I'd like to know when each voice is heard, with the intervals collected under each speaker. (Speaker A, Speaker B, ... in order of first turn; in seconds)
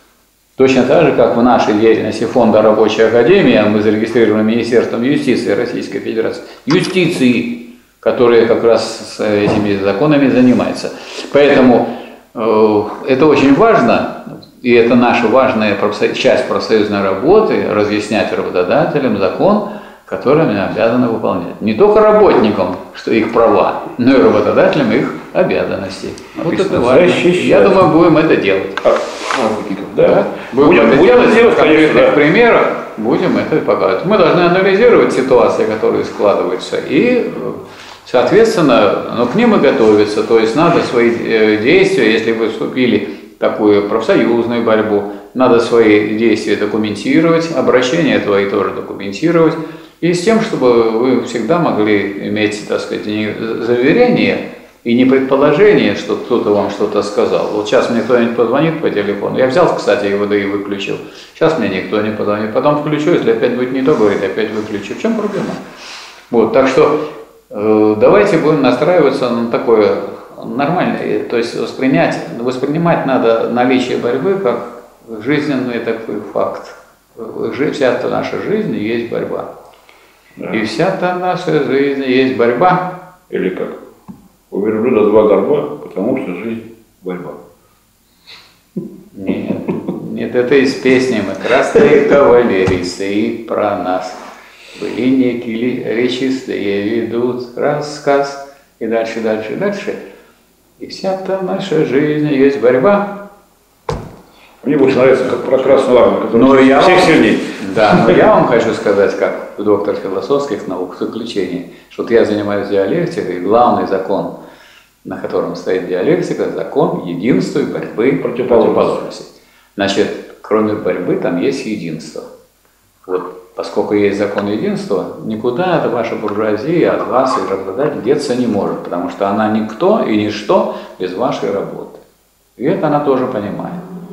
Speaker A: 0.6-28.8, 30.0-65.6, 66.3-79.5, 80.5-82.9, 89.1-94.2, 94.7-100.0, 100.8-103.2, 105.8-114.3, 115.0-122.3, 123.0-132.0, 132.6-133.8
Speaker B: 26.4-27.9, 28.8-32.2, 80.4-80.6, 83.3-83.8, 84.5-87.4, 104.6-108.2, 118.2-119.0